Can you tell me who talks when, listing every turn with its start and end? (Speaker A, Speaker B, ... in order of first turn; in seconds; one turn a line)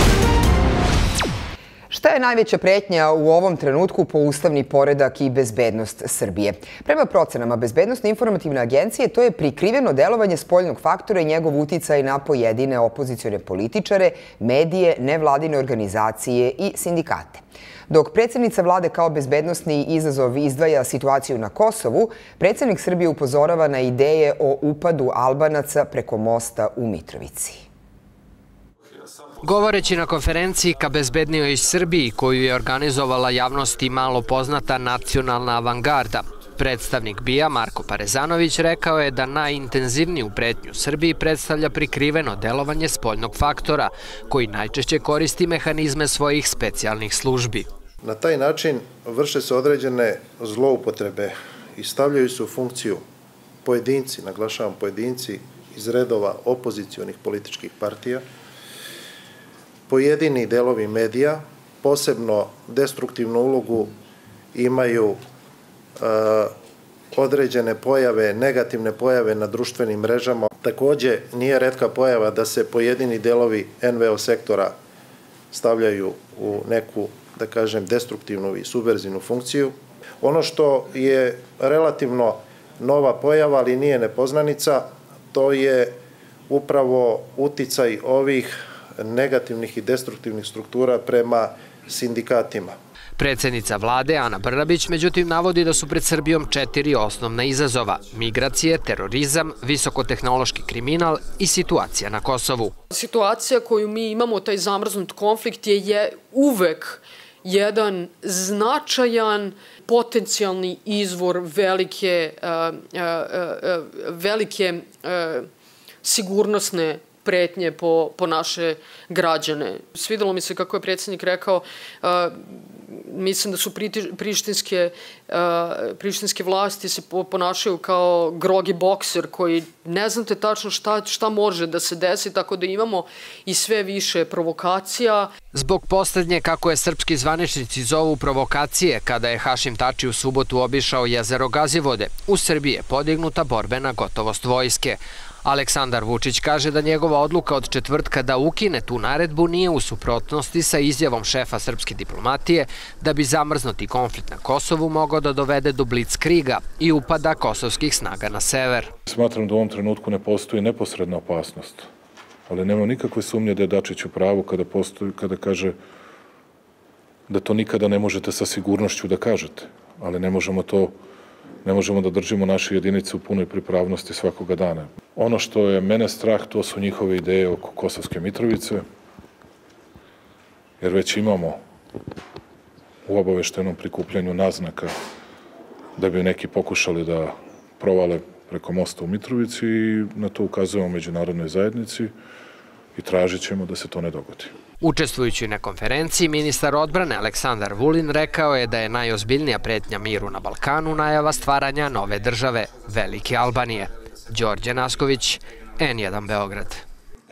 Speaker A: 1.9-27.6
Speaker B: 29.4-47.7
Speaker C: 48.0-53.0
Speaker C: 53.6-58.2
Speaker C: 59.9-64.0
Speaker C: 64.5-65.2
Speaker C: 66.0-66.5
Speaker C: 67.1-74.8
Speaker C: 75.5-92.8
Speaker B: 93.2-102.7
Speaker D: 102.9-115.5
Speaker D: 116.0-135.3
Speaker B: 135.5-158.9
Speaker E: 159.1-161.9
Speaker E: 162.5-165.8
Speaker E: 167.3-170.9
Speaker E: 171.6-178.9
Speaker E: 180.8-181.6
Speaker E: 183.1-184.9
Speaker E: 186.0-192.2
Speaker E: 193.0-194.5
Speaker B: 194.8-206.8